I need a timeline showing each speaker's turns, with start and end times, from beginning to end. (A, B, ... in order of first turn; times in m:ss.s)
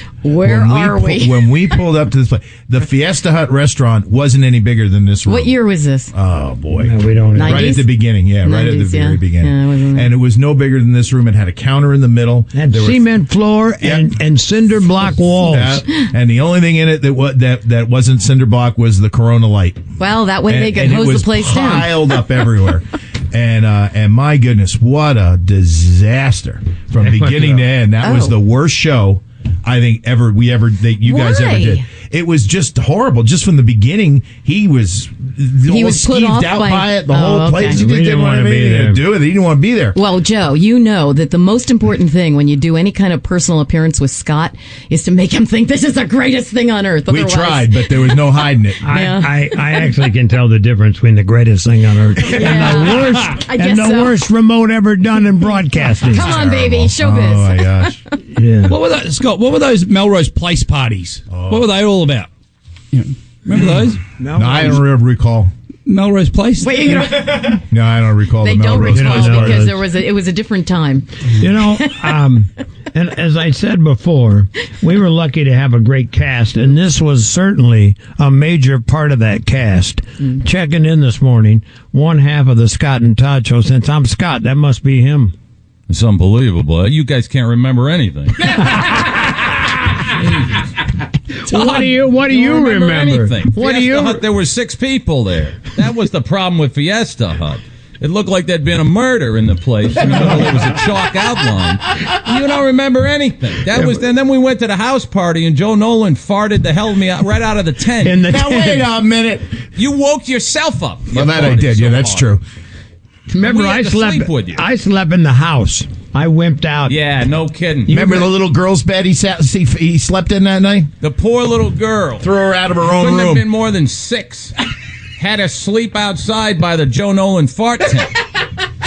0:00.2-0:01.5 A
0:00.4-0:05.6 B
0:05.3-0:06.1 A
0:06.1-0:13.0 B
0:06.8-0:07.8 C
0:07.4-0:07.9 A
0:08.4-0:10.1 A
0:12.5-0:15.8 C
0:13.8-0:14.1 B
0:15.4-0:19.8 B
0:20.0-0:21.9 A
0:20.4-0:40.0 B
0:26.9-0:27.7 C
0:28.0-0:28.4 A
0:31.0-0:31.8 A
0:35.7-0:37.8 A
0:37.7-0:39.1 C
0:39.9-0:48.1 A
0:47.1-0:48.8 B
0:48.8-0:56.4 C
0:48.9-0:49.4 A
0:52.3-0:54.2 A
0:56.1-0:57.9 A
0:56.1-0:58.0 B
0:58.3-0:58.8 C
0:58.6-1:02.3 D
1:01.3-1:01.8 B
1:02.9-1:04.0 D
1:04.2-1:04.8 C
1:04.3-1:05.5 B
1:05.9-1:07.3 D
1:06.6-1:07.6 A
1:07.6-1:09.8 B
1:08.4-1:11.9 A
1:08.9-1:09.8 C
1:11.3-1:25.3 C
1:25.9-1:29.1 E
1:30.1-1:30.7 E
1:31.4-1:34.2 C
1:31.5-1:31.8 D
1:32.2-1:48.2 E
1:43.7-1:44.0 C
1:48.0-1:48.9 C
1:48.3-1:49.5 B
1:49.8-1:52.3 E
1:51.1-1:52.4 B
1:53.3-1:57.0 C
1:53.4-1:54.6 E
1:56.9-1:57.9 E
1:57.9-1:58.3 C
1:57.9-2:00.9 B
2:01.0-2:02.3 E
2:02.2-2:03.4 B
2:02.8-2:04.5 E
2:05.2-2:08.2 E